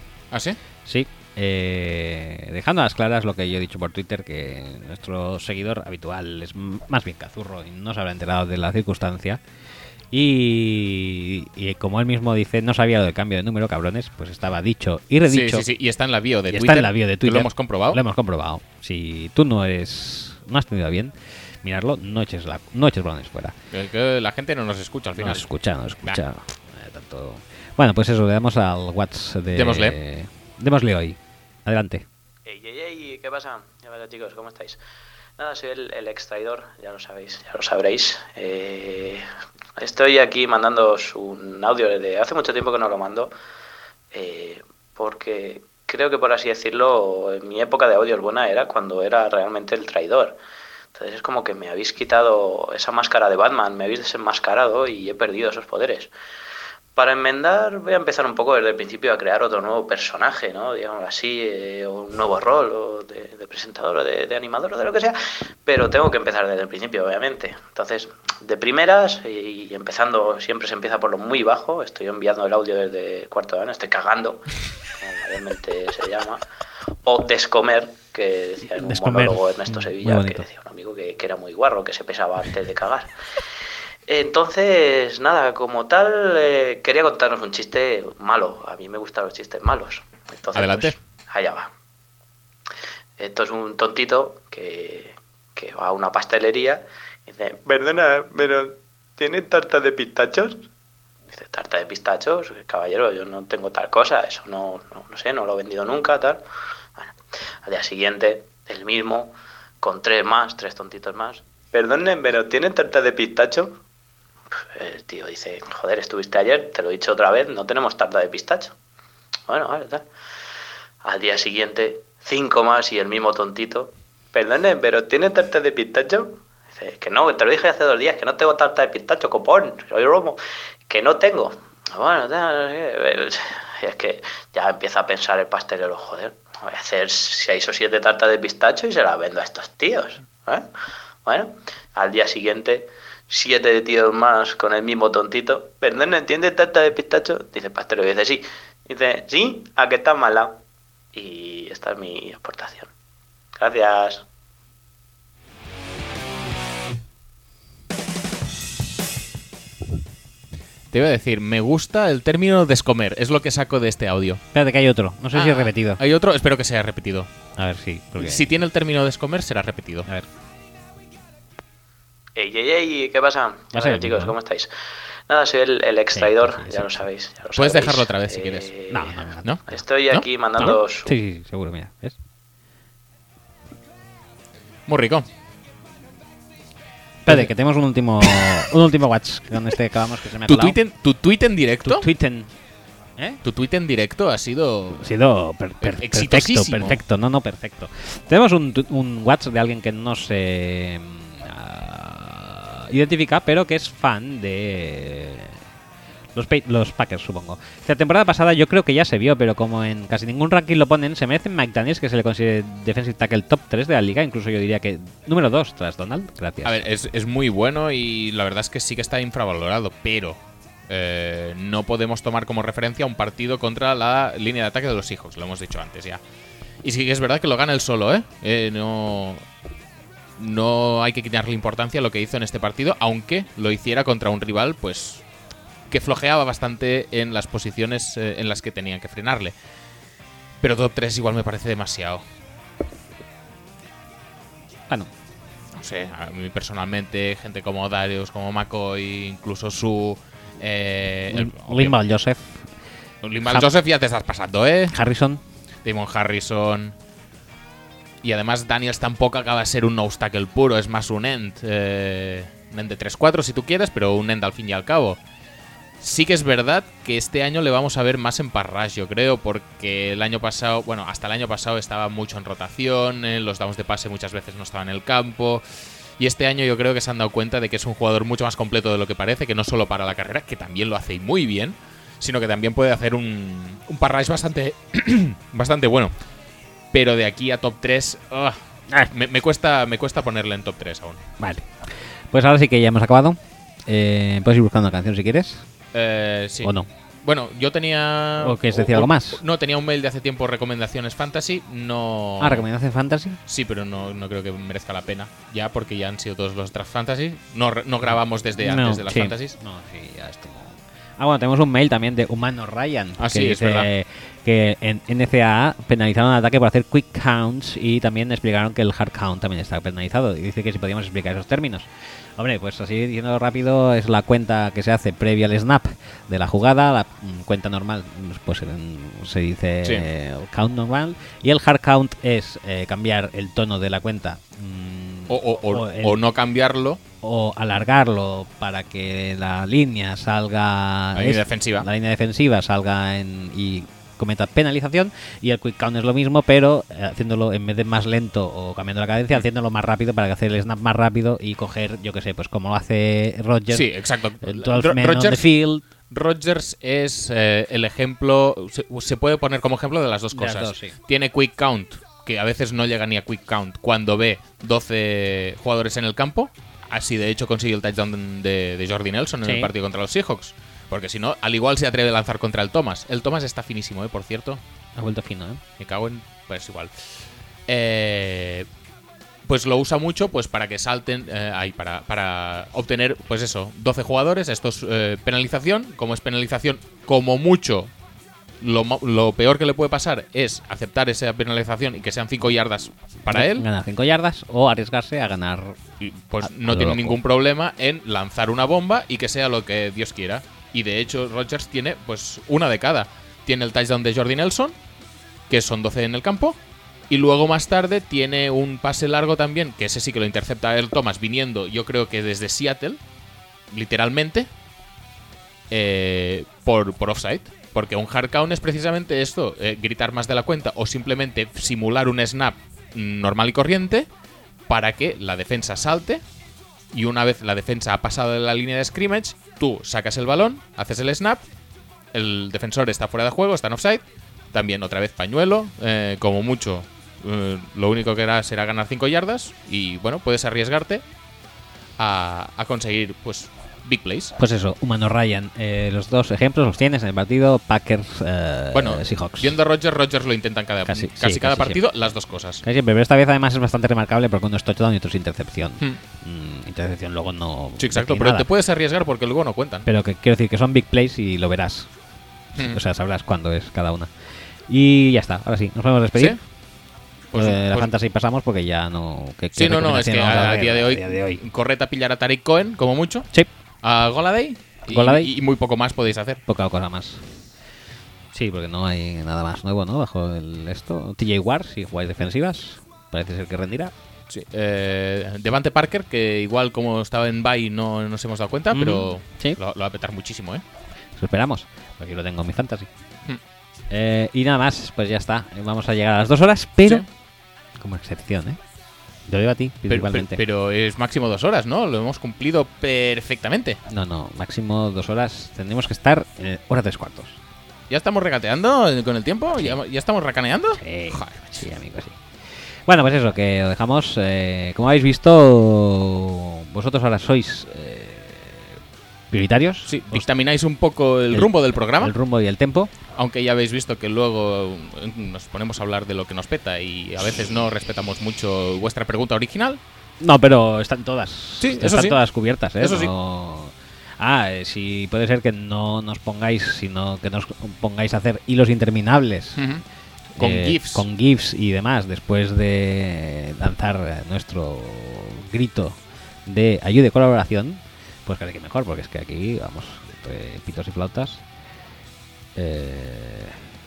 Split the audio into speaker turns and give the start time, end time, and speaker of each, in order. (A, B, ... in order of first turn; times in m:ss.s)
0:00.3-0:00.6 A
0:00.8-0:09.4 B
0:10.1-0:15.6 B
0:15.2-0:18.0 A
0:16.5-0:23.5 B
0:23.7-0:25.5 A
0:25.2-0:32.0 B
0:29.6-0:30.0 A
0:32.4-0:34.8 C
0:35.4-0:39.2 C
0:39.8-0:43.3 C
0:44.1-0:50.4 C
0:50.9-0:56.1 C
0:56.9-1:16.4 C
1:17.0-1:23.1 C
1:18.8-1:20.4 B
1:24.1-1:31.7 C
1:30.5-1:31.0 A
1:33.2-1:40.6 C
1:41.3-1:46.4 C
1:47.0-1:53.8 C
1:54.7-1:58.7 C
1:59.5-2:00.0 C
2:01.0-2:20.7 C
2:21.2-2:30.6 C
2:31.1-2:32.9 C
2:33.6-2:34.2 C
2:40.9-2:44.4 A
2:44.5-2:46.0 B
2:45.3-2:47.3 A
2:47.6-2:48.4 B
2:48.2-2:50.1 A
2:52.4-2:54.7 C
2:53.7-2:54.3 B
2:55.3-3:01.1 C
2:56.1-2:56.9 B
2:57.6-2:58.7 A
2:58.9-2:59.6 B
2:59.4-3:00.3 A
3:00.6-3:02.2 B
3:04.9-3:05.3 A
3:07.2-3:10.8 B
3:10.4-3:12.1 A
3:11.8-3:12.5 B
3:13.4-3:15.0 A
3:15.0-3:25.6 B
3:15.8-3:17.0 A
3:26.3-3:36.9 B
3:36.6-3:46.2 A
3:46.8-3:49.4 A
3:50.4-3:55.2 A
3:55.9-3:59.5 A
4:00.6-4:02.2 A
4:05.7-4:12.0 A
4:11.3-4:12.6 B
4:13.2-4:14.9 A
4:14.9-4:15.4 B
4:15.8-4:17.0 A
4:18.2-4:25.2 A
4:26.0-4:35.6 A
4:36.2-4:46.1 A
4:46.9-4:51.2 A
4:51.4-4:51.7 B
4:52.3-4:55.6 B
4:55.9-4:56.7 A
4:56.6-4:56.9 B
4:57.2-5:02.7 A
4:58.4-4:59.4 B
5:02.4-5:03.4 B
5:03.5-5:09.6 A
5:08.0-5:36.2 B
5:13.2-5:13.9 A
5:35.3-5:37.0 A
5:37.2-5:53.9 B
5:41.1-5:41.8 A
5:53.7-5:55.5 A
5:54.4-5:55.8 B
5:56.1-6:14.6 A
6:00.3-6:00.9 B
6:09.4-6:09.7 B
6:15.0-6:15.6 B
6:15.8-6:16.9 A
6:17.7-6:18.7 A
6:19.5-6:27.9 A
6:28.6-6:33.6 A
6:33.3-6:35.8 B
6:36.0-6:44.8 A
6:36.4-6:37.2 B
6:45.5-6:46.6 A
6:47.1-6:53.0 A
6:53.7-6:54.5 A
6:55.7-7:04.1 A
7:04.7-7:06.2 A
7:06.9-7:11.4 A
7:12.1-7:21.0 A
7:22.0-7:24.4 A
7:24.4-7:29.6 B
7:28.7-7:32.6 A
7:30.9-7:31.8 B
7:32.6-7:38.5 B
7:37.8-7:39.9 A
7:39.8-7:41.9 B
7:42.5-7:42.8 A
7:42.6-7:44.1 B
7:44.7-7:46.4 B
7:47.3-7:47.9 A
7:47.3-7:51.4 B
7:49.5-7:53.3 A
7:53.8-7:56.4 A
7:54.9-7:55.3 B
7:56.5-7:57.2 B
7:58.3-8:03.9 B
8:04.3-8:10.6 A
8:08.7-8:09.6 B
8:11.2-8:12.9 B
8:13.9-8:17.0 B
8:17.8-8:18.6 B
8:19.3-8:20.4 B
8:19.9-8:23.8 A
8:23.9-8:27.4 B
8:27.9-8:31.6 A
8:30.8-8:32.2 B
8:32.8-8:38.8 B
8:39.3-8:40.3 B
8:39.8-8:42.1 A
8:41.3-8:42.9 B
8:43.1-8:49.8 A
8:50.2-8:59.6 B
8:51.6-8:52.2 A
8:52.8-8:53.1 A
8:59.6-8:59.8 A
9:00.4-9:01.0 A
9:00.4-9:11.4 B
9:12.5-9:13.6 B